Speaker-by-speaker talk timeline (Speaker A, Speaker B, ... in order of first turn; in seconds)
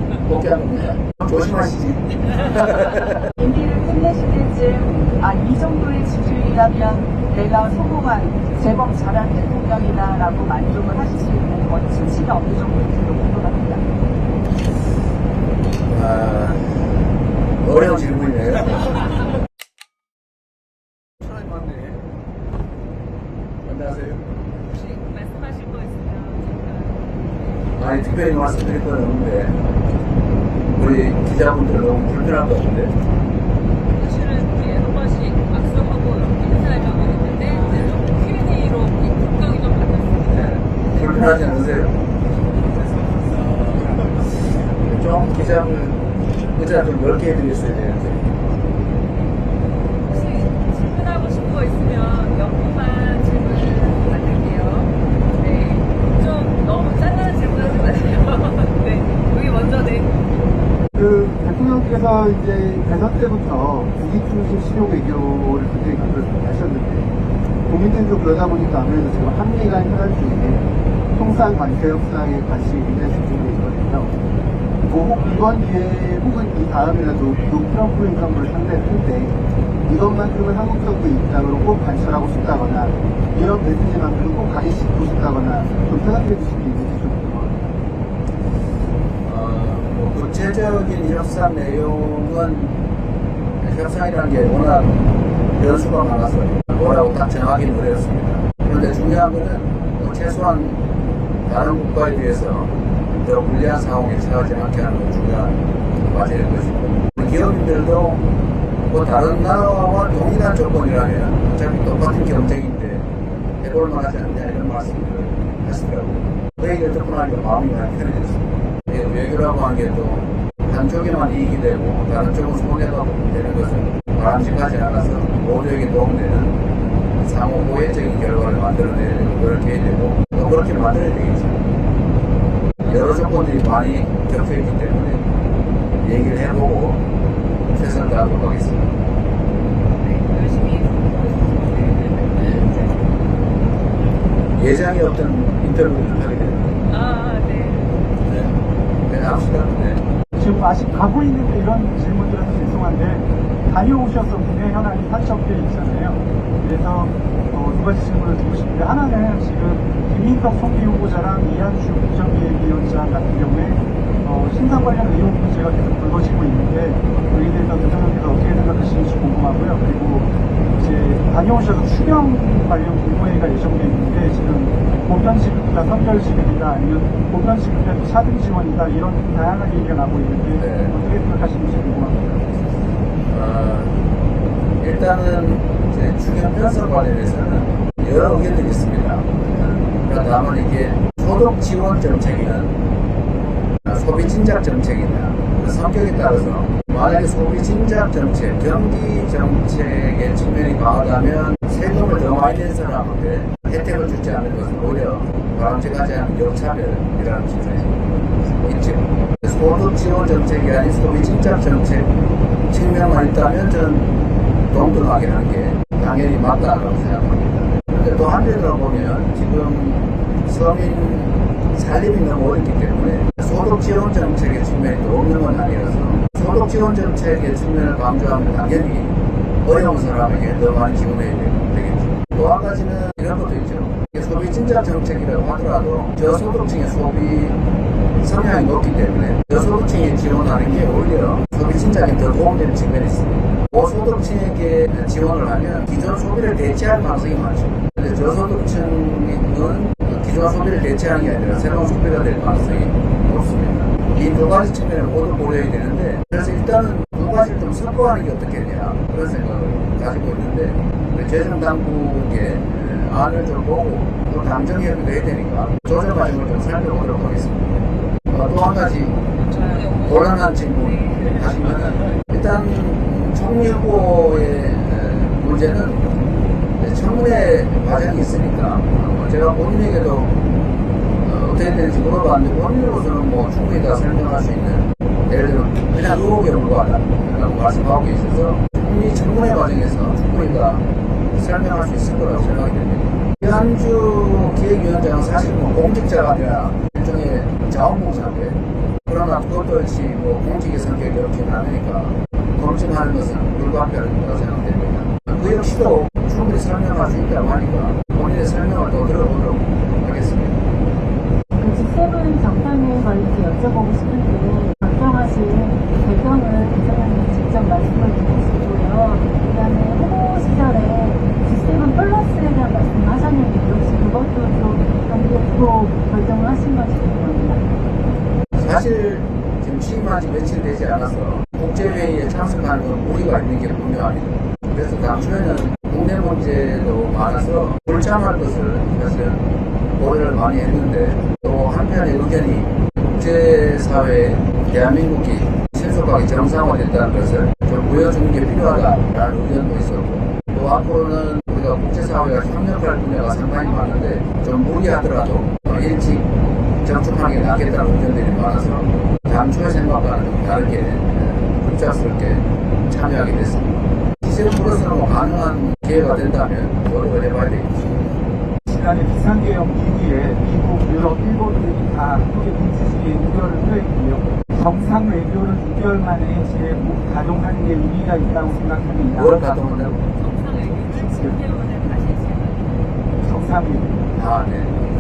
Speaker A: 0.2-3.1, 15.9-16.9, 17.6-18.9, 21.4-21.9, 23.6-24.3, 27.8-29.6, 30.7-32.9, 40.9-42.0, 43.6-48.4, 89.2-92.8, 93.6-95.0, 95.5-100.8, 101.5-108.2, 108.9-113.1, 113.6-126.6, 127.2-131.6, 132.8-135.3, 136.0-137.0, 137.7-138.9, 144.6-146.8, 148.3-150.0, 180.6-180.9, 183.3-184.0, 184.8-189.3, 190.0-192.8, 193.9-208.0, 208.6-212.1, 212.7-214.1, 214.7-237.6, 238.2-269.2, 269.9-276.1, 276.8-280.3, 281.2-310.6, 328.6-339.4, 340.0-356.3, 356.8-367.8, 379.1-380.0, 384.1-384.7
Speaker B: 3.4-13.8
Speaker C: 24.7-27.5, 34.0-41.3, 50.1-60.2, 140.0-143.2, 146.9-147.9, 269.3-271.7, 380.1-382.8
Speaker D: 60.9-67.1, 67.7-74.1, 74.9-87.6
Speaker E: 150.4-182.4, 368.7-379.6, 380.8-381.4, 383.2-384.0
Speaker F: 311.6-327.7